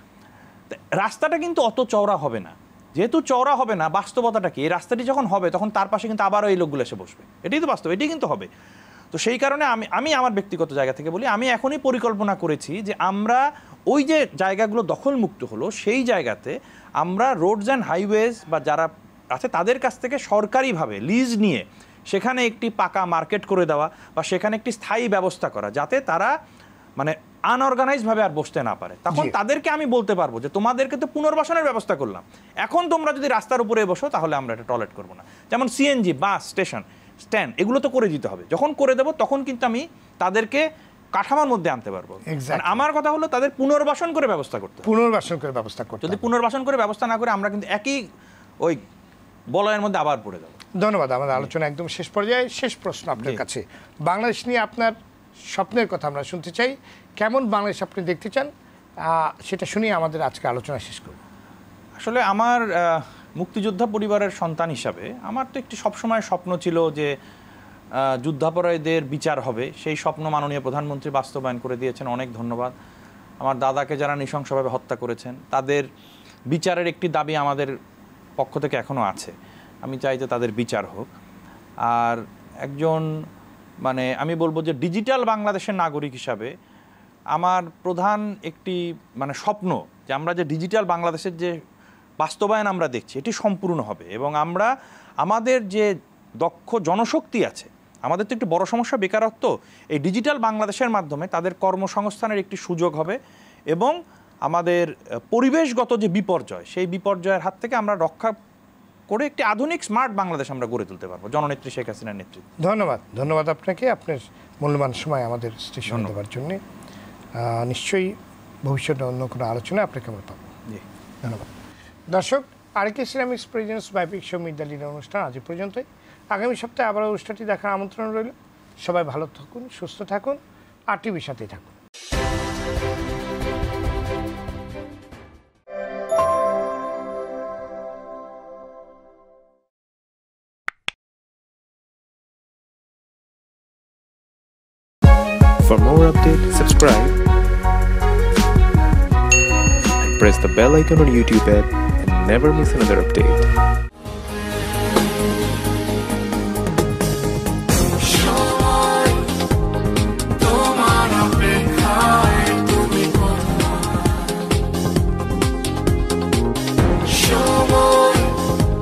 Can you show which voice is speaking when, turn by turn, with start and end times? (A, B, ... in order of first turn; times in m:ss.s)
0:00.7-0:08.5 A
0:09.1-0:26.3 A
0:27.0-0:44.9 A
0:42.3-0:42.8 B
0:44.8-0:46.3 B
0:46.0-0:48.0 A
0:49.5-0:50.6 A
0:50.8-0:55.0 B
0:55.5-0:58.5 B
0:59.0-1:01.2 B
1:02.0-1:07.1 A
1:08.0-1:12.7 A
1:13.4-1:15.9 A
1:16.5-1:17.7 A
1:18.4-1:21.1 A
1:21.9-1:23.1 A
1:23.8-1:26.5 A
1:27.3-1:31.6 A
1:32.2-1:34.7 A
1:35.2-1:35.9 A
1:36.4-1:43.2 A
1:43.7-1:48.4 A
1:49.1-1:52.4 A
1:52.6-1:56.6 B
1:55.9-1:56.1 A
1:57.4-2:00.5 B
2:01.2-2:01.5 B
2:02.1-2:10.4 B
2:10.9-2:11.8 B
2:25.6-2:27.2 C
2:30.0-2:33.5 C
2:40.5-2:43.5 C
2:47.5-2:48.2 C